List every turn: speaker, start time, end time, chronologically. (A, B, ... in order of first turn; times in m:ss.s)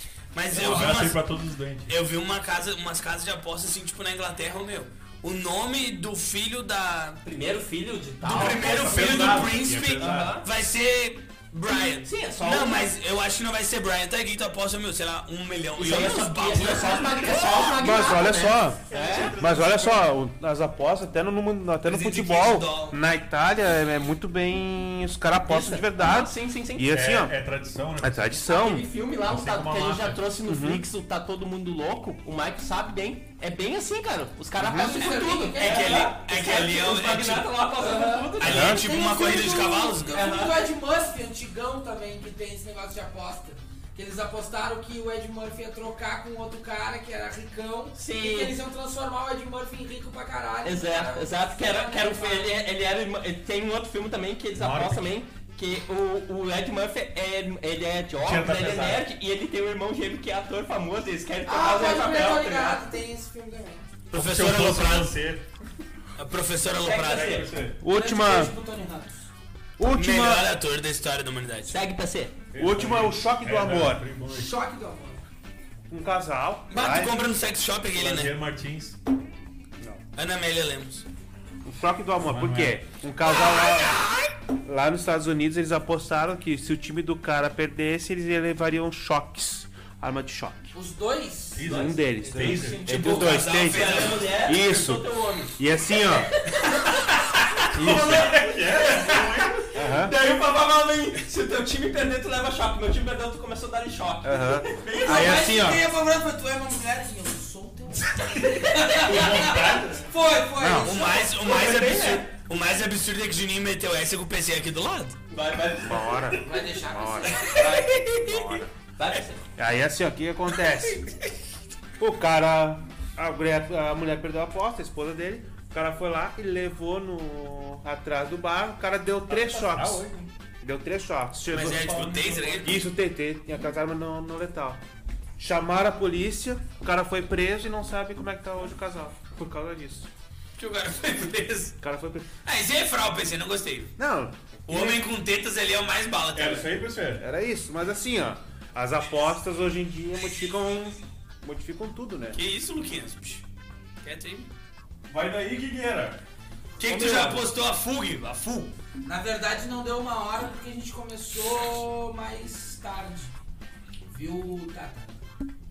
0:00.3-0:01.2 A
0:00.5-0:02.0 B
0:01.9-0:07.2 A
0:07.2-0:10.5 C
0:08.2-0:17.8 A
0:08.2-0:10.4 B
0:12.0-0:12.9 C
0:15.8-0:19.4 C
0:17.5-0:18.8 D
0:18.9-0:20.1 B
0:19.4-0:27.4 D
0:21.8-0:23.0 A
0:25.5-0:26.9 C
0:26.9-0:28.4 B
0:28.0-0:28.9 D
0:28.4-0:38.8 C
0:29.2-0:30.3 B
0:30.5-0:30.8 D
0:34.6-0:34.9 D
0:34.8-0:36.2 E
0:35.6-0:37.6 A
0:37.9-0:52.5 E
0:38.4-0:40.3 A
0:38.4-0:38.9 D
0:40.1-0:40.7 C
0:48.0-0:48.6 C
0:50.6-1:02.8 C
0:54.6-0:55.1 B
0:58.2-0:59.1 B
1:01.4-1:03.9 E
1:04.1-1:05.1 A
1:04.1-1:05.5 B
1:06.2-1:07.5 A
1:06.9-1:07.5 C
1:06.9-1:07.8 B
1:07.8-1:08.5 D
1:07.9-1:09.3 E
1:09.8-1:10.5 D
1:09.9-1:11.9 A
1:11.7-1:12.4 C
1:12.5-1:14.6 B
1:12.6-1:14.1 D
1:14.3-1:15.2 E
1:15.9-1:17.2 D
1:16.7-1:18.4 A
1:17.9-1:19.0 B
1:20.2-1:21.1 A
1:21.6-1:24.1 D
1:22.2-1:22.8 B
1:23.3-1:24.1 A
1:24.7-1:30.7 D
1:30.7-1:31.6 E
1:31.6-1:32.8 B
1:31.7-1:36.3 D
1:31.7-1:36.8 C
1:32.9-1:34.3 A
1:37.7-1:39.6 B
1:37.8-1:38.3 D
1:37.8-1:45.7 C
1:39.8-1:40.1 D
1:44.2-1:45.8 D
1:45.0-1:51.4 E
1:48.4-1:50.1 B
1:50.6-1:50.9 D
1:50.8-1:55.2 A
1:51.1-1:52.3 C
1:55.3-1:56.6 C
1:55.8-1:58.7 D
1:56.4-1:57.6 E
1:57.3-1:57.8 A
1:57.4-1:59.4 C
1:59.6-2:01.1 D
2:02.0-2:10.1 D
2:09.3-2:10.3 B
2:10.6-2:12.0 D
2:11.5-2:12.8 A
2:11.5-2:12.8 B
2:12.6-2:14.8 D
2:15.4-2:20.1 D
2:20.6-2:21.8 A
2:21.8-2:22.3 D
2:22.4-2:23.9 A
2:24.0-2:25.0 D
2:24.7-2:26.7 A
2:26.4-2:27.2 B
2:27.2-2:32.4 D
2:32.3-2:33.4 A
2:34.0-2:34.5 A
2:35.1-2:36.2 B
2:36.8-2:38.7 A
2:36.9-2:37.4 D
2:39.0-2:43.3 E
2:44.1-2:45.2 E